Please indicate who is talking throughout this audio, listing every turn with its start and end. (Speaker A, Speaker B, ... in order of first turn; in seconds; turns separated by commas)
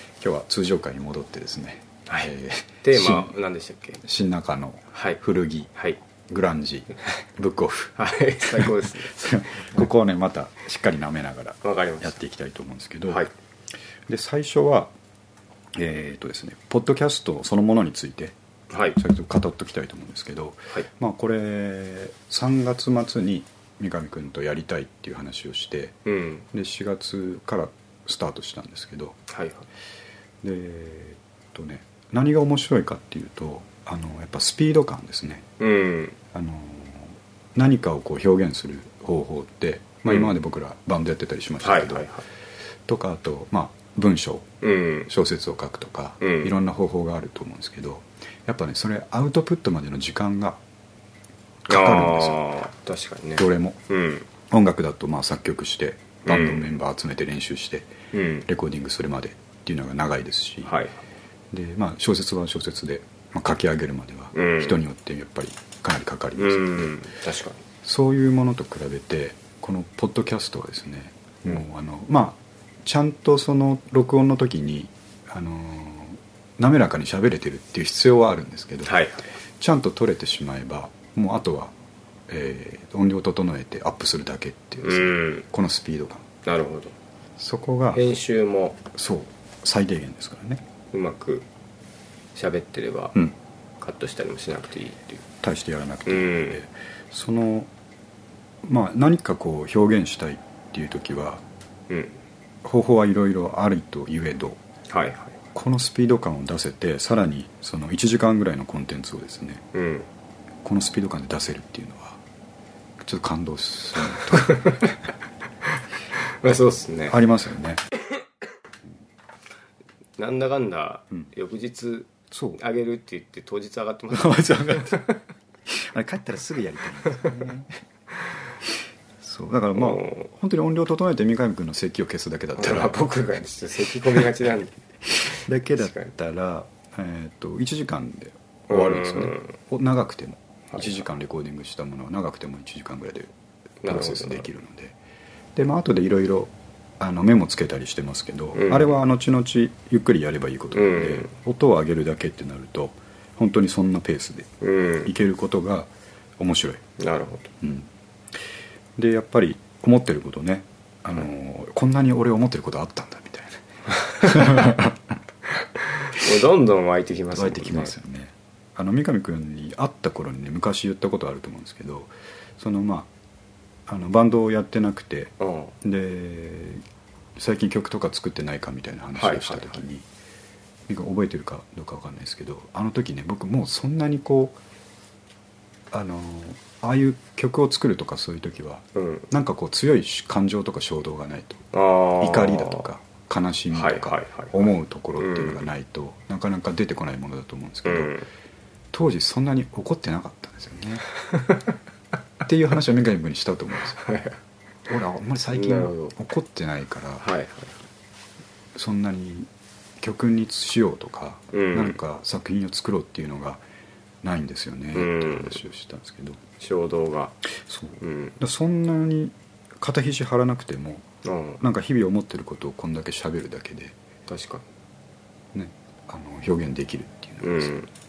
Speaker A: 0.2-3.3, Speaker B: 2.8-4.0, Speaker A: 4.0-5.7, Speaker B: 4.9-5.2, Speaker A: 6.3-13.2, Speaker B: 8.0-9.8, Speaker B: 11.6-12.2, Speaker A: 14.1-14.9, Speaker A: 15.8-18.4, Speaker B: 18.7-19.0, Speaker A: 19.0-26.0, Speaker B: 26.1-26.5, Speaker A: 26.5-29.2, Speaker B: 29.3-29.7, Speaker A: 30.4-35.5, Speaker B: 35.6-36.2, Speaker A: 36.3-42.1, Speaker B: 40.1-40.4, Speaker B: 41.6-42.2, Speaker A: 42.9-44.5, Speaker B: 44.6-45.1, Speaker A: 45.1-50.6, Speaker B: 46.2-46.5, Speaker A: 51.7-52.4, Speaker B: 51.7-54.3, Speaker A: 53.4-53.8, Speaker A: 54.5-58.0, Speaker B: 56.3-56.7, Speaker B: 58.1-58.5, Speaker A: 58.5-60.8, Speaker B: 60.7-61.0, Speaker A: 61.5-67.0, Speaker B: 64.3-64.8, Speaker B: 66.4-67.6, Speaker A: 67.8-78.9, Speaker B: 78.9-79.3, Speaker A: 79.6-81.7, Speaker A: 82.3-86.2, Speaker B: 84.8-85.5, Speaker B: 86.5-86.9, Speaker A: 87.4-88.0, Speaker B: 87.9-88.8, Speaker A: 88.9-90.6, Speaker B: 90.9-91.5, Speaker B: 92.3-93.2, Speaker B: 93.8-95.2, Speaker A: 95.4-97.7, Speaker B: 96.1-96.6, Speaker A: 98.6-101.4, Speaker B: 101.9-102.2, Speaker A: 102.6-104.6, Speaker B: 104.9-105.4, Speaker A: 105.5-109.7, Speaker B: 109.7-110.1, Speaker A: 110.6-112.2, Speaker A: 113.0-114.8, Speaker B: 114.1-114.9, Speaker B: 115.7-117.2, Speaker A: 117.1-117.8, Speaker B: 120.2-125.2, Speaker A: 122.3-122.6, Speaker A: 124.1-125.1, Speaker A: 125.7-127.8, Speaker A: 129.2-133.0, Speaker B: 129.8-130.3, Speaker B: 132.6-136.1, Speaker A: 135.1-143.3, Speaker B: 138.7-139.5, Speaker B: 140.7-141.0, Speaker B: 143.8-144.5, Speaker A: 143.9-145.0, Speaker A: 145.6-154.5, Speaker B: 148.5-149.0, Speaker B: 150.7-151.3, Speaker B: 154.6-155.1, Speaker A: 155.1-156.8, Speaker B: 157.0-157.5, Speaker A: 157.6-157.9, Speaker A: 159.0-165.0, Speaker B: 164.2-164.8, Speaker B: 165.8-167.9, Speaker A: 167.3-173.1, Speaker A: 173.9-176.8, Speaker B: 175.4-175.8, Speaker A: 177.4-180.1, Speaker B: 179.2-179.8, Speaker A: 180.9-184.6, Speaker A: 185.9-198.2, Speaker B: 188.9-189.3, Speaker B: 191.7-192.8, Speaker B: 193.7-195.7, Speaker B: 197.9-198.3, Speaker A: 198.9-201.1, Speaker B: 201.2-201.8, Speaker A: 202.4-204.0, Speaker B: 204.0-204.4, Speaker A: 204.9-207.3, Speaker B: 205.5-206.2, Speaker B: 207.2-207.8, Speaker A: 208.8-209.5, Speaker A: 210.0-213.6, Speaker B: 211.5-212.0, Speaker A: 214.2-216.4, Speaker B: 214.9-215.6, Speaker B: 216.6-217.4, Speaker A: 217.6-221.1, Speaker B: 218.0-218.4, Speaker B: 221.2-221.6, Speaker A: 221.6-224.0, Speaker B: 224.3-224.6, Speaker A: 225.5-227.7, Speaker B: 227.4-227.9